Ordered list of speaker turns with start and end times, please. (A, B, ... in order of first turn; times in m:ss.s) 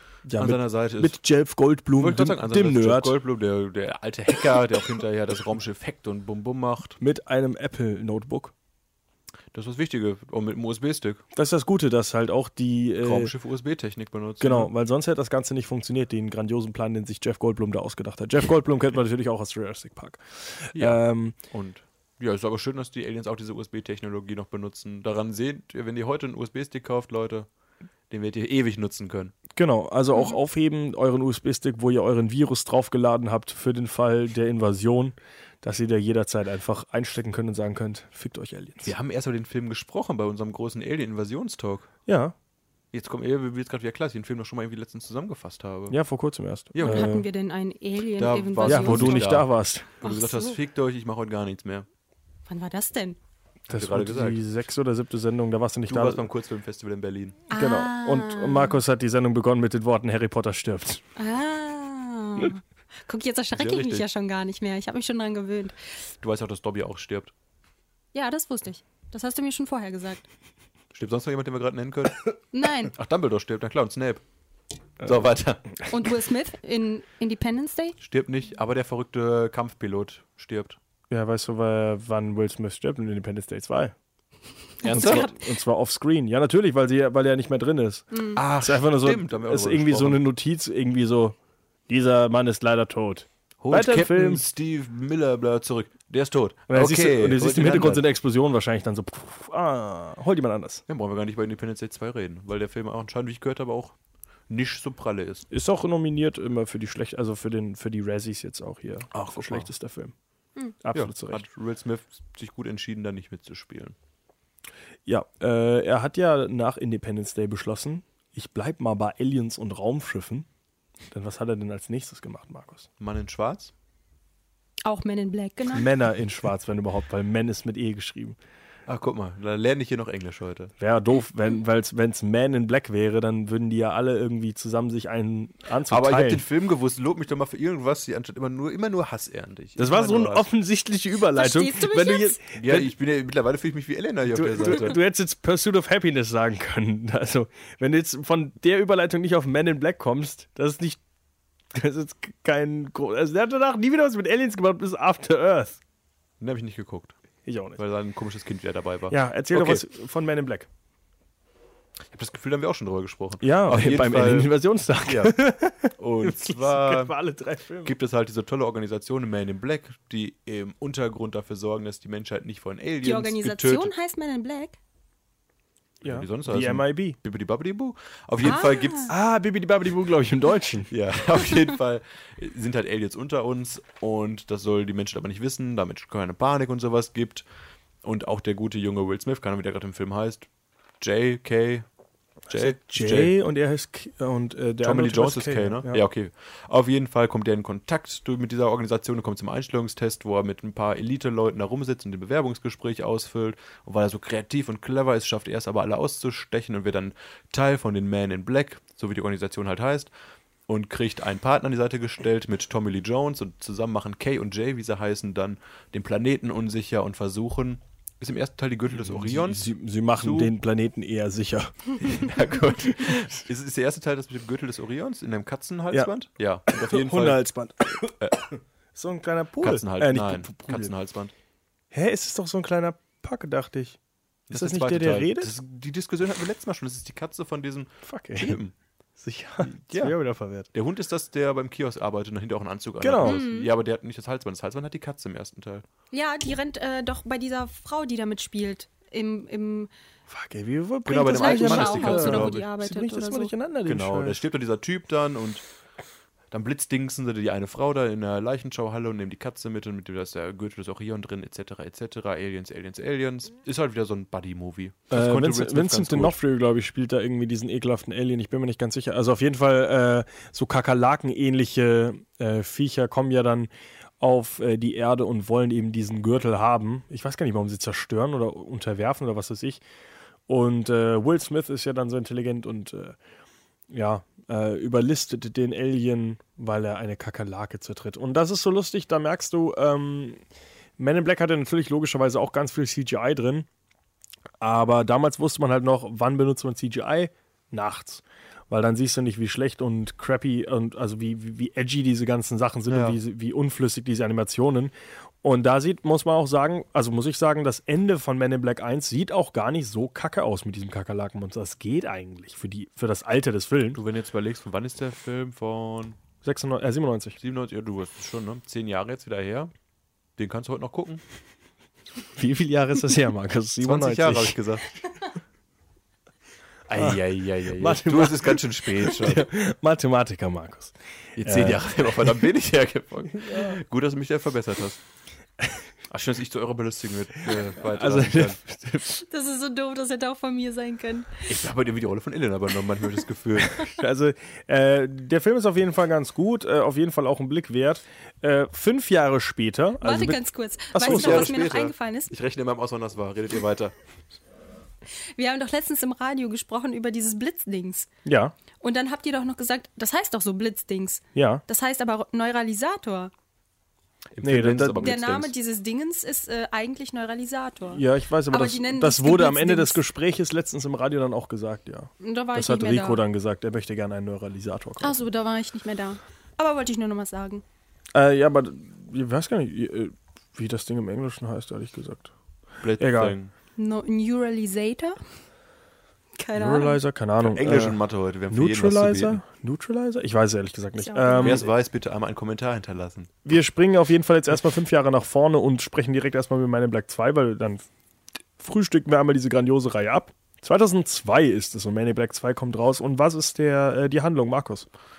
0:00.2-0:03.1 A
0:00.4-0:01.2 B
0:02.0-0:07.0 B
0:07.0-0:08.5 A
0:09.5-0:11.2 B
0:11.3-0:13.3 A
0:13.0-0:14.7 B
0:14.4-0:21.4 A
0:20.7-0:27.5 B
0:28.1-0:29.3 B
0:29.6-0:38.9 A
0:38.8-0:41.9 B
0:42.0-0:42.3 A
0:42.9-0:46.0 B
0:45.9-0:47.2 A
0:46.7-0:47.1 B
0:46.8-0:49.4 C
0:48.2-0:51.9 B
0:48.6-0:49.9 A
0:50.0-0:50.6 C
0:52.5-0:53.2 C
0:53.7-0:54.4 B
0:53.7-0:56.2 A
0:55.9-0:57.4 B
0:57.5-0:58.8 C
0:57.5-1:01.0 A
1:01.2-1:05.8 C
1:03.5-1:04.0 B
1:06.2-1:07.3 B
1:08.1-1:10.2 C
1:10.9-1:12.2 B
1:12.5-1:12.9 C
1:12.8-1:14.2 B
1:15.0-1:15.8 B
1:15.9-1:18.0 C
1:18.0-1:20.8 B
1:21.1-1:23.9 A
1:24.8-1:25.3 B
1:24.8-1:25.3 C
1:24.9-1:31.4 A
1:28.1-1:28.4 C
1:28.3-1:30.2 B
1:31.9-1:34.4 A
1:33.6-1:38.1 B
1:36.7-1:40.8 A
1:40.9-1:43.9 B
1:44.5-1:45.4 B
1:45.5-1:50.1 A
1:49.1-1:49.7 B
1:50.8-1:51.4 A
1:50.9-1:54.0 B
1:55.1-2:00.5 A
2:01.1-2:02.9 A
2:03.0-2:03.7 B
2:04.8-2:05.9 C
2:05.7-2:08.4 A
2:08.8-2:10.7 B
2:10.8-2:16.4 A
2:15.9-2:20.5 B
2:19.8-2:22.9 A
2:21.3-2:22.4 C
2:22.5-2:25.0 B
2:24.3-2:31.0 A
2:31.7-2:35.8 A
2:36.4-2:37.1 B
2:37.4-2:37.8 A
2:37.8-2:39.8 B
2:39.1-2:40.7 A
2:42.1-2:45.4 B
2:43.4-2:47.9 A
2:46.0-2:47.2 B
2:47.8-2:53.9 B
2:53.0-2:54.8 C
2:56.0-2:59.1 B
2:56.0-2:57.2 A
2:58.4-2:59.1 C
2:59.1-3:00.9 A
3:00.9-3:07.4 B
3:08.0-3:10.5 B
3:11.0-3:11.8 B
3:12.5-3:16.0 A
3:12.5-3:13.3 B
3:14.8-3:30.1 B
3:30.7-3:40.5 B
3:39.0-3:41.9 A
3:42.0-3:47.4 B
3:46.7-3:48.2 A
3:48.2-3:48.4 B
3:48.9-3:50.9 A
3:49.6-3:51.3 B
3:51.9-3:54.0 A
3:54.5-3:58.7 B
3:54.5-3:55.5 A
3:58.0-3:58.6 A
3:59.2-4:00.7 A
3:59.6-4:00.2 B
4:00.7-4:05.8 B
4:03.0-4:03.4 A
4:03.2-4:03.7 C
4:06.1-4:09.9 C
4:10.3-4:14.4 A
4:11.0-4:12.7 B
4:11.1-4:13.5 C
4:13.8-4:15.6 B
4:16.5-4:26.4 B
4:25.1-4:39.8 A
4:40.5-4:43.2 A
4:43.9-4:50.4 A
4:51.0-4:53.7 A
4:54.6-5:14.0 A
5:02.9-5:03.2 B
5:13.9-5:16.2 B
5:16.4-5:17.4 A
5:17.4-5:19.7 B
5:20.4-5:21.2 B
5:22.3-5:24.6 A
5:23.8-5:24.9 B
5:26.9-5:29.5 B
5:27.7-5:32.3 A
5:31.4-5:35.0 B
5:33.4-5:33.7 A
5:36.1-5:38.6 B
5:37.7-5:39.2 A
5:39.3-5:41.5 C
5:41.4-5:43.8 B
5:43.7-5:51.5 A
5:50.0-5:52.3 C
5:51.0-5:53.9 B
5:55.3-5:58.1 C
5:58.2-5:58.5 A
5:58.8-6:03.3 C
6:01.3-6:01.6 A
6:04.3-6:05.5 B
6:04.4-6:05.1 A
6:05.0-6:10.0 C
6:07.9-6:15.2 A
6:12.2-6:13.2 C
6:15.0-6:17.6 C
6:18.1-6:22.3 A
6:22.8-6:23.5 B
6:23.0-6:23.4 A
6:23.8-6:25.2 C
6:26.4-6:27.0 C
6:26.5-6:31.6 A
6:27.4-6:29.4 B
6:31.0-6:31.7 C
6:31.4-6:33.3 B
6:33.4-6:37.9 A
6:38.6-6:44.9 A